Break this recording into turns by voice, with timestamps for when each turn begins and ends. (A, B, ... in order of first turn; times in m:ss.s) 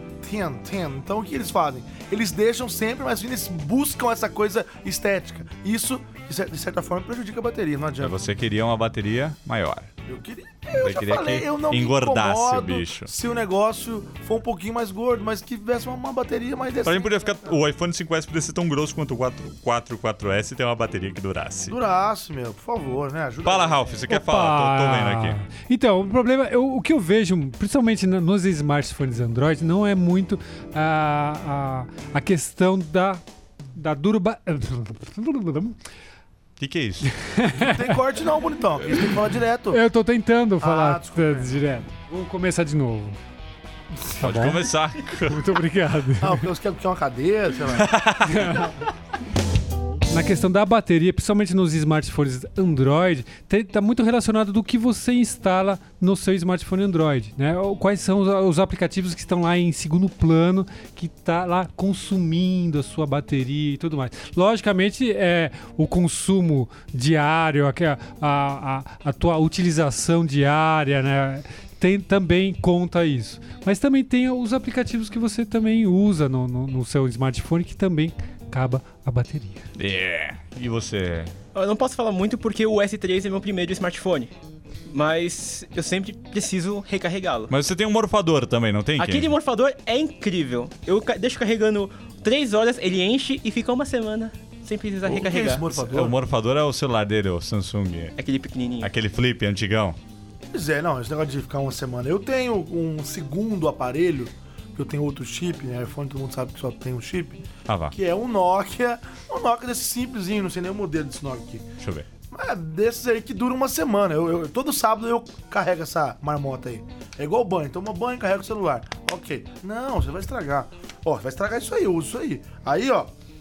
0:00.2-0:08.2 A
0:08.0-0:09.9 B
0:10.0-0:17.6 A
0:10.8-0:13.1 B
0:16.8-0:21.8 B
0:21.7-0:24.0 A
0:23.4-0:25.4 B
0:24.1-0:33.2 C
0:33.7-0:35.8 C
0:36.6-0:37.1 B
0:37.2-0:37.9 C
0:37.5-0:39.8 A
0:39.7-0:43.2 C
0:40.6-0:41.6 A
0:44.0-0:46.5 C
0:44.2-0:45.5 B
0:46.2-0:47.9 A
0:47.7-0:48.8 B
0:48.3-0:48.7 C
0:50.1-1:19.6 C
1:19.7-1:21.3 B
1:21.5-1:24.3 D
1:24.9-1:27.5 D
1:27.5-1:29.3 B
1:29.0-1:35.8 D
1:35.0-1:36.2 A
1:35.7-1:38.2 B
1:38.2-1:38.9 D
1:38.8-1:40.0 B
1:40.5-1:51.6 A
1:47.6-1:47.9 B
1:51.8-1:52.1 B
1:52.3-2:03.1 A